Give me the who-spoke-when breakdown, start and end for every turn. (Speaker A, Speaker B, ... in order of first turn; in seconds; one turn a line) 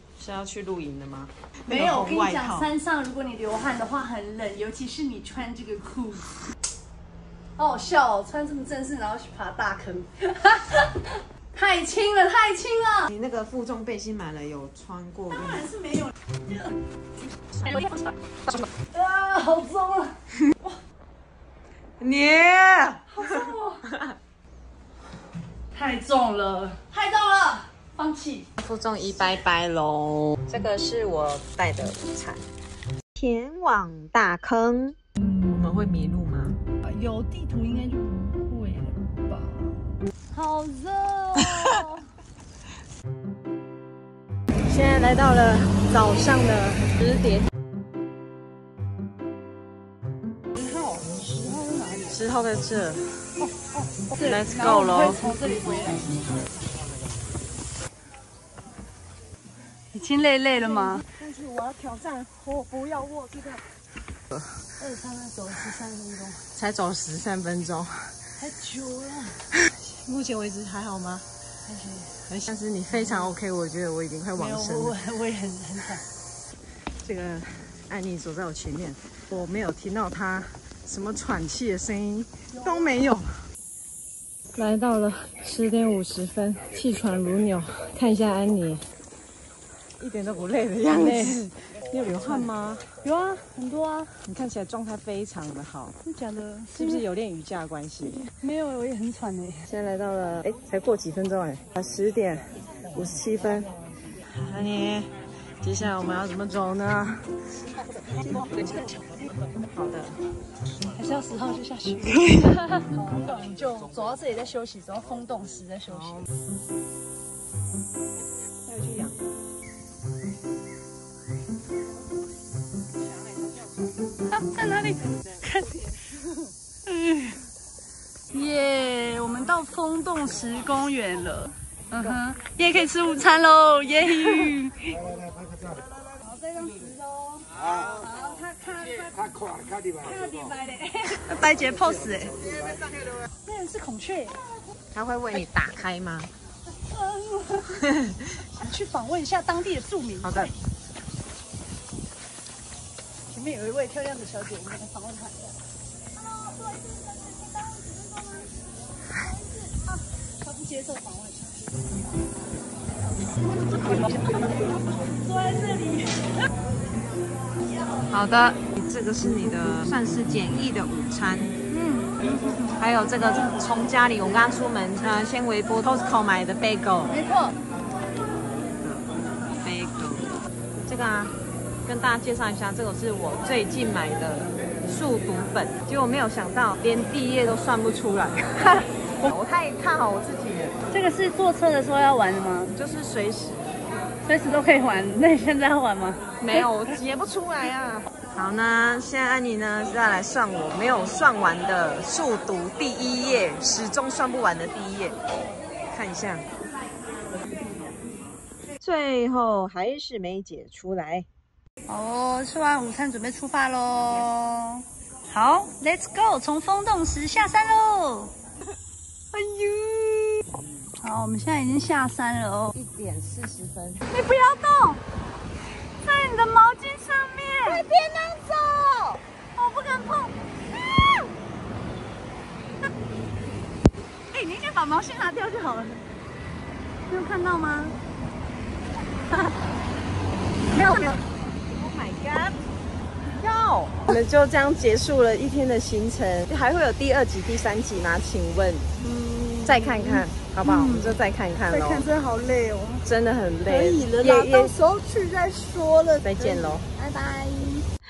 Speaker A: 0.2-2.7
Speaker B: 1.6-6.3
Speaker B: 7.5-13.1
Speaker A: 13.1-15.7
Speaker B: 15.3-16.8
Speaker A: 17.6-17.9
Speaker B: 17.6-18.1
Speaker B: 18.9-20.8
Speaker A: 22.0-24.0
Speaker B: 23.1-23.8
Speaker B: 25.7-28.5
Speaker A: 28.6-32.4
Speaker A: 33.2-36.6
Speaker B: 36.9-42.0
Speaker A: 44.6-47.5
Speaker B: 50.6-52.2
Speaker A: 52.1-53.1
Speaker B: 53.4-56.1
Speaker A: 54.2-55.2
Speaker B: 59.9-61.0
Speaker A: 61.0-63.6
Speaker B: 64.8-66.4
Speaker A: 66.5-68.2
Speaker B: 68.4-69.5
Speaker A: 69.6-71.2
Speaker B: 71.6-72.2
Speaker A: 72.3-74.9
Speaker B: 72.9-73.3
Speaker B: 74.3-76.0
Speaker A: 77.0-83.4
Speaker B: 82.5-83.1
Speaker A: 84.5-88.8
Speaker A: 90.0-92.9
Speaker B: 90.9-91.5
Speaker B: 92.2-92.5
Speaker B: 93.0-94.2
Speaker A: 94.2-95.9
Speaker B: 96.0-97.0
Speaker A: 96.7-98.2
Speaker B: 98.4-99.7
Speaker A: 99.7-103.7
Speaker A: 104.3-107.3
Speaker A: 108.2-108.9
Speaker A: 109.7-110.2
Speaker B: 110.9-116.2
Speaker A: 118.6-119.2
Speaker B: 124.3-126.0
Speaker B: 126.8-127.4
Speaker B: 128.3-135.0
Speaker B: 136.2-142.9
Speaker B: 143.4-144.4
Speaker A: 144.9-146.3
Speaker B: 146.8-147.8
Speaker A: 147.7-148.3
Speaker B: 148.5-150.5
Speaker A: 150.2-150.5
Speaker B: 153.3-155.6
Speaker B: 156.1-161.9
Speaker B: 163.6-166.4
Speaker A: 168.1-171.5
Speaker B: 171.7-172.8
Speaker A: 172.8-177.2
Speaker B: 177.1-177.5
Speaker A: 178.7-181.3
Speaker A: 181.8-190.8
Speaker B: 190.9-192.7
Speaker A: 192.7-193.7
Speaker B: 194.2-196.7
Speaker A: 196.4-205.2
Speaker A: 205.9-206.4
Speaker A: 208.8-211.3
Speaker B: 211.9-218.3
Speaker B: 219.3-220.4
Speaker B: 221.0-222.7
Speaker A: 222.7-224.0
Speaker B: 224.1-225.0
Speaker B: 226.0-227.9
Speaker A: 227.7-229.2
Speaker B: 229.5-230.3
Speaker B: 234.3-236.0
Speaker B: 237.1-238.0
Speaker B: 240.7-241.2
Speaker A: 241.7-242.6
Speaker A: 243.4-248.9
Speaker B: 249.0-251.2
Speaker A: 249.6-252.1
Speaker B: 251.7-253.0
Speaker A: 253.0-254.7
Speaker B: 253.7-257.9
Speaker A: 256.2-256.9